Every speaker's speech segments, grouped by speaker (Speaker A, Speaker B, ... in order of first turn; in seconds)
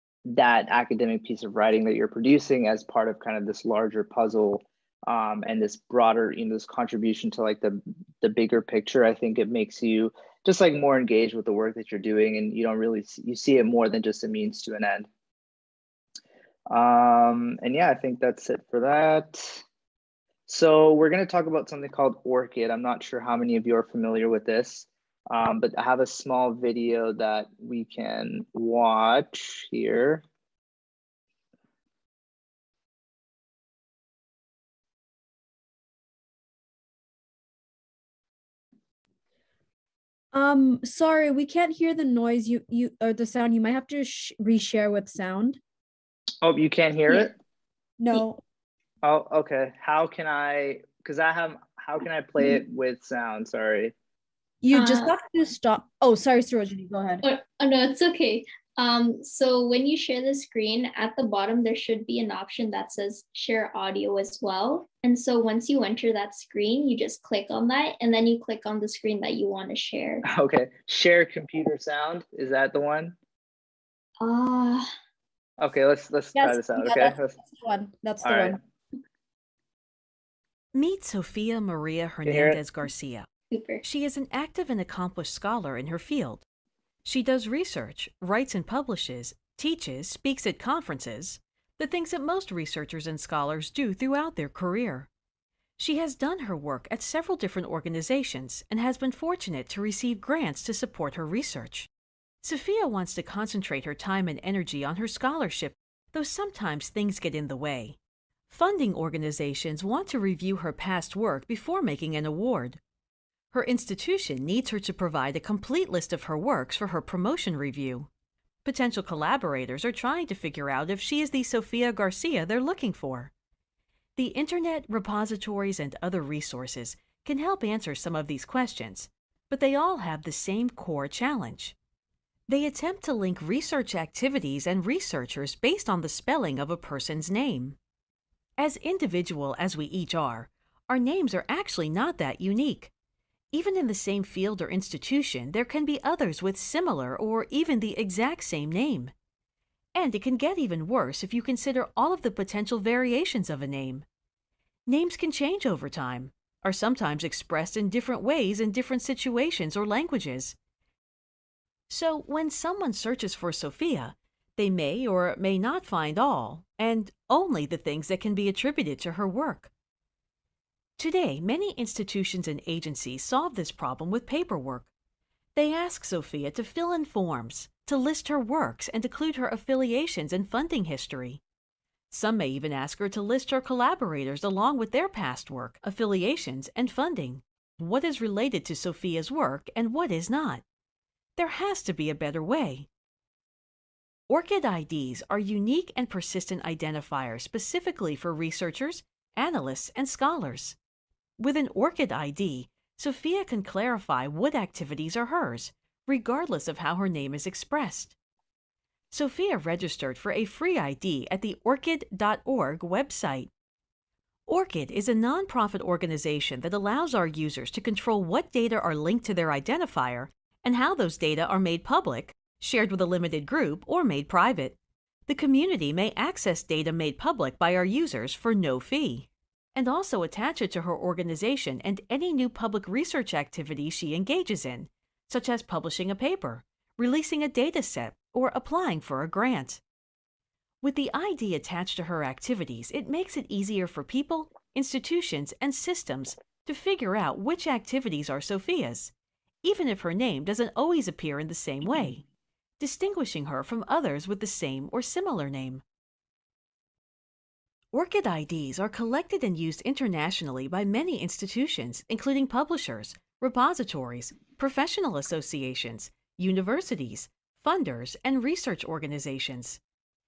Speaker A: 0.3-15.1, 16.7-19.6, 20.5-30.2, 46.4-47.4, 49.0-54.0, 70.3-73.2, 75.6-77.4, 78.2-78.6, 82.2-82.6
Speaker B: 40.3-45.6, 48.0-48.4, 54.6-57.2, 76.3-78.6
Speaker C: 54.7-55.1, 57.2-70.2, 74.2-74.9, 83.5-83.8
Speaker D: 80.7-83.3, 83.8-86.4, 87.0-95.1, 95.8-101.9, 102.4-108.0, 108.5-112.8, 113.5-118.1, 118.7-123.3, 124.2-131.8, 132.5-137.8, 138.6-142.9, 143.5-149.1, 149.9-154.1, 154.9-160.6, 161.9-169.7, 171.0-174.9, 175.6-181.4, 182.1-190.6, 191.4-192.9, 194.3-200.8, 201.4-208.2, 209.1-213.5, 214.5-239.8, 240.8-252.2, 252.8-255.8, 257.9-269.8